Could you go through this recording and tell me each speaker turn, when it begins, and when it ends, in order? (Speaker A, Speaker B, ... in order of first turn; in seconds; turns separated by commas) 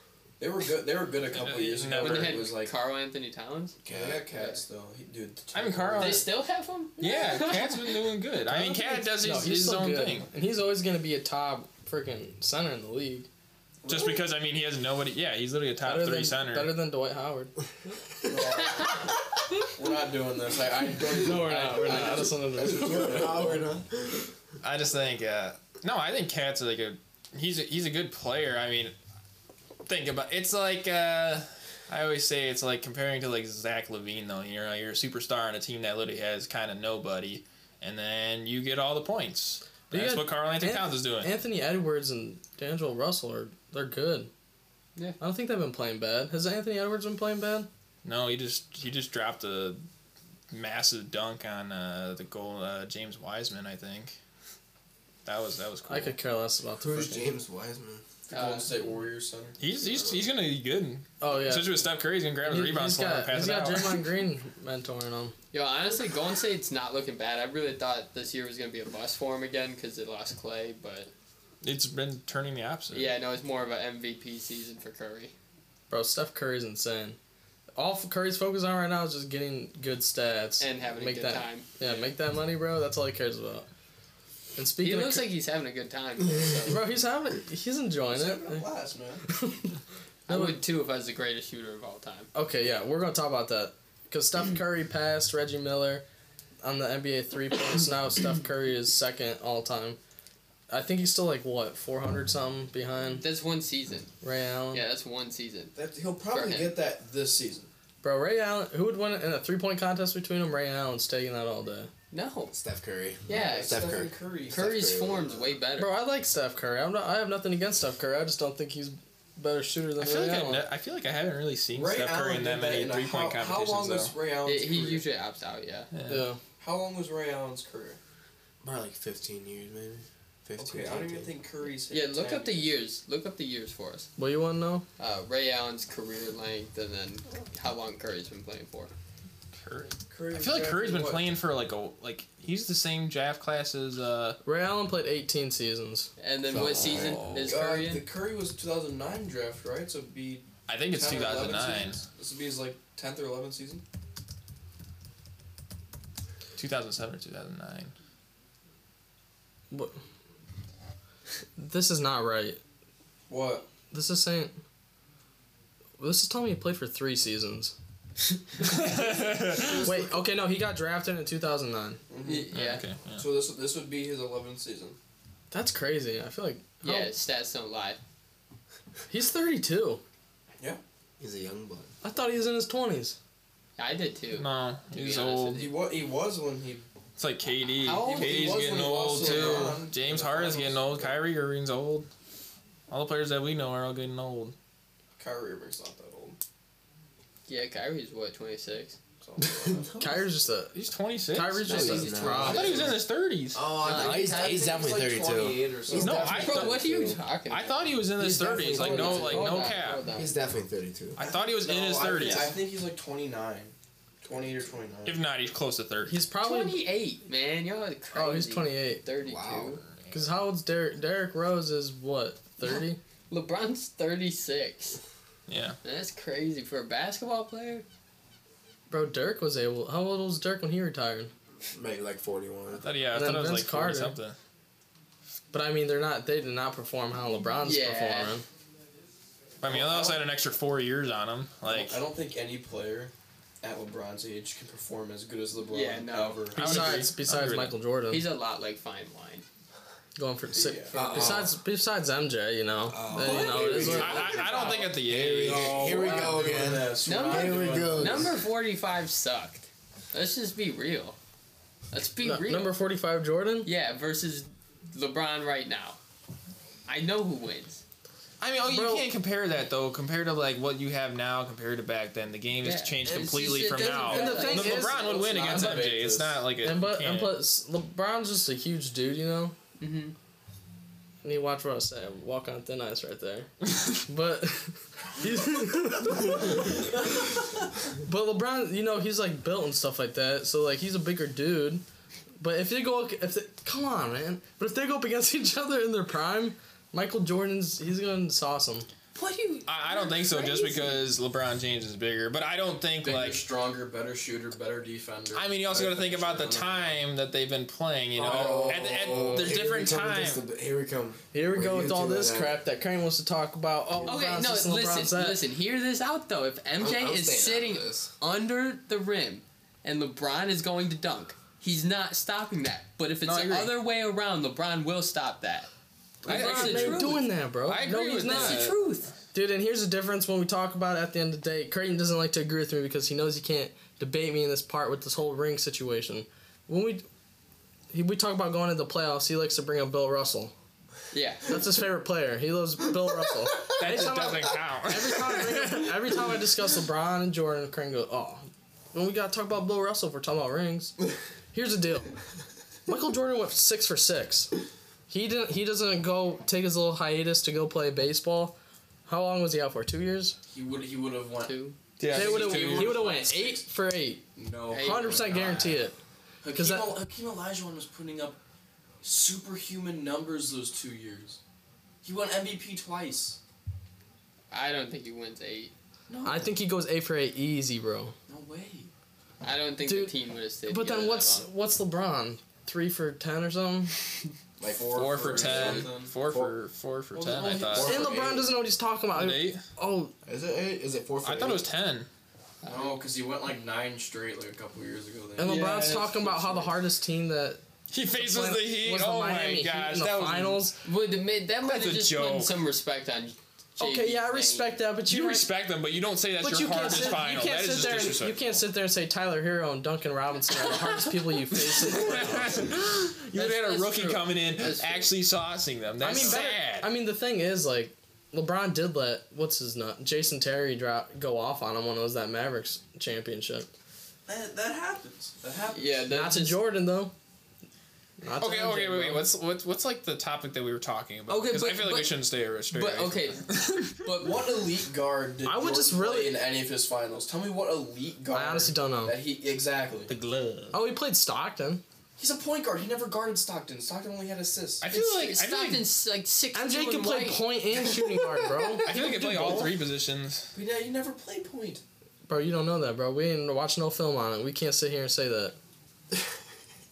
Speaker A: 0.4-2.7, Speaker B: 1.3-2.5, Speaker C: 2.0-3.8, Speaker D: 3.9-4.2, Speaker A: 3.9-6.3, Speaker C: 4.3-4.6, Speaker B: 5.5-6.3, Speaker C: 6.0-8.1, Speaker B: 7.0-10.3, Speaker E: 8.5-13.3, Speaker A: 13.8-14.2, Speaker B: 13.9-16.8, Speaker E: 15.8-17.5, Speaker A: 18.2-23.7, Speaker E: 21.2-23.4, Speaker D: 22.1-24.3, Speaker B: 24.6-28.9, Speaker B: 29.9-41.3, Speaker E: 39.9-44.3, Speaker E: 45.2-47.7, Speaker B: 48.0-49.8, Speaker B: 50.5-54.2, Speaker B: 55.3-56.2, Speaker E: 55.9-57.3, Speaker D: 56.8-58.0, Speaker A: 58.3-60.2, Speaker C: 58.3-58.7, Speaker B: 59.6-64.1, Speaker E: 61.2-61.8, Speaker E: 62.4-65.3, Speaker C: 65.5-71.1, Speaker B: 71.6-73.1, Speaker C: 72.9-75.3, Speaker E: 75.9-77.2, Speaker E: 77.8-83.7, Speaker C: 80.6-82.1, Speaker E: 84.6-85.3, Speaker C: 84.8-86.8, Speaker E: 86.7-88.7, Speaker A: 88.1-89.3, Speaker E: 89.3-89.8, Speaker C: 90.3-92.3, Speaker E: 90.3-90.6, Speaker E: 92.3-96.0, Speaker E: 96.6-100.0, Speaker E: 100.7-103.2, Speaker C: 103.2-104.1, Speaker E: 104.2-104.8, Speaker C: 104.7-105.7, Speaker A: 105.8-107.7, Speaker C: 106.3-106.7, Speaker E: 108.0-111.9, Speaker C: 112.1-112.5, Speaker D: 112.5-115.5, Speaker C: 113.3-113.9, Speaker A: 113.3-114.7, Speaker C: 114.5-115.9, Speaker E: 115.8-120.7, Speaker B: 120.0-124.2, Speaker A: 121.7-125.0, Speaker C: 124.5-125.9, Speaker B: 125.9-126.3, Speaker E: 126.1-126.4, Speaker A: 126.6-128.0, Speaker D: 128.6-131.3, Speaker A: 130.6-132.7, Speaker C: 131.9-134.1, Speaker E: 134.2-134.8, Speaker C: 135.0-138.9, Speaker B: 139.6-144.4, Speaker A: 140.1-141.3, Speaker E: 144.4-146.1, Speaker C: 146.2-148.0, Speaker D: 146.5-147.3, Speaker B: 146.8-147.5, Speaker A: 147.3-153.8, Speaker B: 150.7-152.0, Speaker B: 156.6-157.9, Speaker E: 159.7-160.0, Speaker E: 161.6-162.6, Speaker A: 163.3-163.7, Speaker E: 163.9-164.6, Speaker E: 166.0-167.7, Speaker B: 168.6-169.9, Speaker D: 169.6-170.0, Speaker E: 169.8-172.0, Speaker A: 172.1-172.5, Speaker C: 172.2-172.8, Speaker B: 172.5-173.3, Speaker A: 173.2-175.0, Speaker E: 175.5-177.1, Speaker C: 176.8-178.0, Speaker E: 179.1-180.0, Speaker D: 181.2-181.9, Speaker E: 182.0-183.2, Speaker C: 183.8-185.6, Speaker B: 184.3-185.7, Speaker A: 185.5-186.9, Speaker B: 187.2-192.1, Speaker C: 187.8-188.7, Speaker A: 188.0-191.2, Speaker C: 189.2-189.7, Speaker B: 192.9-194.5, Speaker A: 195.2-196.4, Speaker C: 197.5-199.0, Speaker A: 199.2-199.9, Speaker D: 199.4-200.2, Speaker E: 200.0-200.8, Speaker B: 200.7-203.7, Speaker E: 201.3-202.8, Speaker C: 201.7-202.9, Speaker D: 201.7-203.0, Speaker A: 203.5-207.1, Speaker D: 203.7-207.2, Speaker C: 203.8-204.8, Speaker B: 206.0-206.9, Speaker C: 206.3-207.9, Speaker B: 207.5-210.1, Speaker D: 208.2-209.5, Speaker C: 208.4-210.3, Speaker E: 208.8-209.7, Speaker D: 210.1-211.2, Speaker B: 211.2-212.6, Speaker A: 211.2-215.2, Speaker C: 212.2-212.5, Speaker B: 215.1-216.2, Speaker E: 216.1-216.8, Speaker C: 216.4-219.8, Speaker E: 218.1-219.0, Speaker D: 219.2-219.8, Speaker E: 220.1-223.0, Speaker C: 223.3-225.0, Speaker B: 225.5-225.8, Speaker C: 225.8-227.8, Speaker E: 228.9-231.3, Speaker D: 231.7-232.8, Speaker B: 232.8-234.4, Speaker E: 233.1-234.2, Speaker E: 235.5-238.4, Speaker C: 237.6-238.3, Speaker B: 239.6-242.0, Speaker A: 239.6-240.3, Speaker A: 241.7-247.0, Speaker C: 245.7-246.5, Speaker B: 246.5-247.8, Speaker E: 246.6-248.2, Speaker C: 248.1-249.4, Speaker E: 250.2-254.2, Speaker A: 250.5-251.1, Speaker C: 250.9-251.4, Speaker D: 250.9-251.5, Speaker D: 252.9-258.3, Speaker A: 253.1-258.3, Speaker C: 253.2-254.8, Speaker B: 254.0-256.0, Speaker E: 255.9-256.4, Speaker C: 257.0-261.2, Speaker C: 261.9-262.8, Speaker E: 262.2-263.7, Speaker C: 263.6-266.0, Speaker C: 266.9-267.8, Speaker B: 268.4-277.4, Speaker E: 268.7-269.1, Speaker C: 272.6-275.2, Speaker A: 273.7-276.5, Speaker E: 274.1-275.0, Speaker E: 276.6-279.6, Speaker C: 279.8-280.1, Speaker E: 281.2-286.9, Speaker E: 288.0-291.8, Speaker E: 292.4-298.9, Speaker C: 299.1-301.1, Speaker B: 299.7-303.5, Speaker A: 303.0-307.0, Speaker B: 305.3-310.4, Speaker D: 308.2-312.6, Speaker E: 308.2-309.2, Speaker E: 311.3-315.4, Speaker C: 314.1-325.7, Speaker D: 316.8-318.1, Speaker B: 323.2-323.7, Speaker C: 326.2-327.3, Speaker E: 326.3-328.7, Speaker B: 326.3-329.1, Speaker C: 328.2-329.1, Speaker E: 329.3-337.1, Speaker E: 337.9-340.5, Speaker C: 341.1-341.5, Speaker E: 341.5-350.9, Speaker B: 343.7-346.3, Speaker E: 351.5-352.1, Speaker E: 352.9-354.6, Speaker E: 355.1-358.6, Speaker E: 359.1-360.4, Speaker A: 360.5-363.6, Speaker C: 361.4-361.8, Speaker B: 362.0-363.1, Speaker E: 362.1-366.0, Speaker A: 364.4-365.8, Speaker C: 364.7-365.3, Speaker A: 366.4-368.4, Speaker E: 366.5-366.9, Speaker A: 369.0-371.4, Speaker A: 372.0-373.4, Speaker C: 374.5-375.7, Speaker A: 376.1-376.5, Speaker E: 376.2-378.1, Speaker A: 378.3-378.9, Speaker C: 379.4-381.5, Speaker E: 379.8-380.1, Speaker E: 380.7-383.9, Speaker D: 384.6-386.5, Speaker A: 384.6-386.1, Speaker B: 384.9-388.1, Speaker A: 387.1-388.5, Speaker E: 387.8-390.1, Speaker D: 388.0-388.4, Speaker B: 389.1-389.6, Speaker D: 390.2-391.6, Speaker B: 391.2-392.1, Speaker C: 392.6-393.0, Speaker A: 392.6-395.6, Speaker E: 395.4-397.6, Speaker B: 395.4-396.7, Speaker B: 397.9-400.7, Speaker E: 398.1-400.8, Speaker C: 400.8-404.8, Speaker B: 401.6-402.5, Speaker E: 403.8-405.5, Speaker B: 405.1-408.6, Speaker E: 406.4-412.7, Speaker B: 410.6-416.9, Speaker C: 413.3-415.1, Speaker E: 416.0-423.7, Speaker A: 424.3-426.0, Speaker C: 425.7-426.6, Speaker E: 426.1-427.1, Speaker E: 428.2-429.3, Speaker B: 428.4-434.4, Speaker C: 431.3-433.5, Speaker A: 434.0-440.1, Speaker E: 435.4-436.4, Speaker E: 438.3-439.2, Speaker B: 440.1-440.8, Speaker E: 440.7-441.8, Speaker A: 442.2-445.0, Speaker B: 444.8-445.9, Speaker C: 444.9-447.5, Speaker E: 446.6-449.7, Speaker B: 448.8-450.5, Speaker C: 448.9-449.6, Speaker A: 450.5-451.8, Speaker E: 452.3-455.6